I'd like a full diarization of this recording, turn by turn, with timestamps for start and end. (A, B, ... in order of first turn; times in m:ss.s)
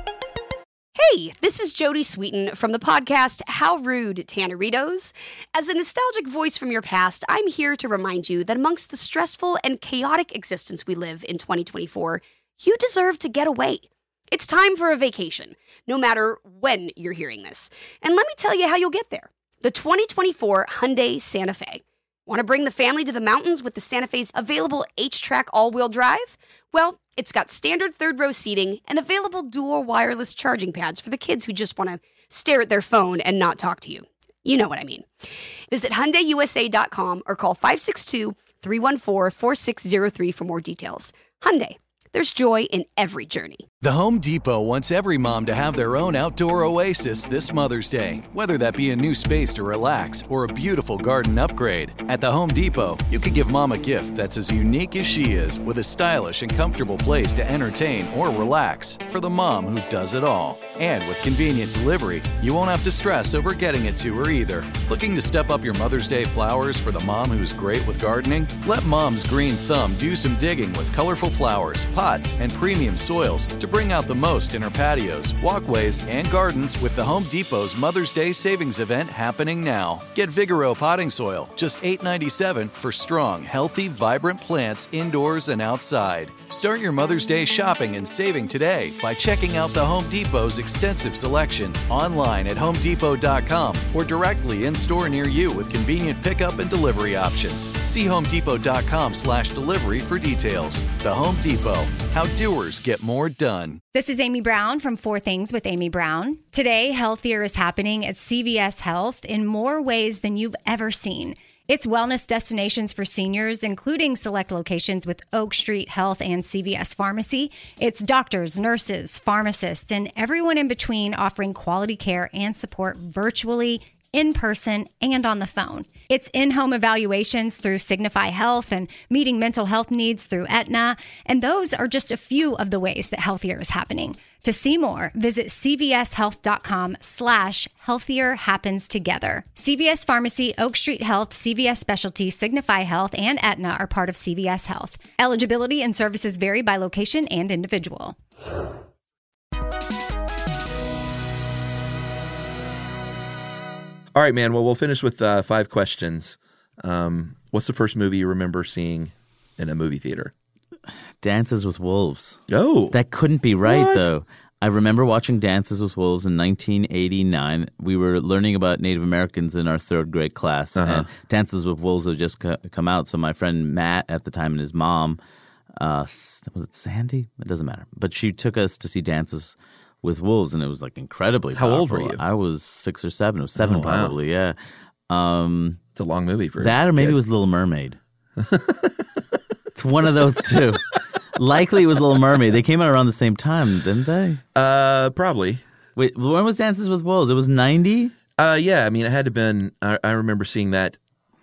0:01.0-0:35.1 A
0:35.7-0:43.7 A
0:43.8-1:43.8 B
1:43.9-2:28.2 C
2:34.1-2:40.3 D
2:41.2-2:42.4 E
2:42.5-2:43.0 D
2:42.9-2:55.2 E
2:43.6-2:44.1 D
2:50.8-2:51.1 D
2:55.7-3:04.6 E
3:01.6-3:02.2 D
3:03.6-3:04.2 D
3:05.1-3:05.8 E
3:06.0-3:07.2 D
3:06.6-3:08.0 E
3:08.4-3:09.1 D
3:09.8-3:14.4 E
3:14.6-3:15.6 D
3:16.0-3:18.1 E
3:18.4-3:21.0 D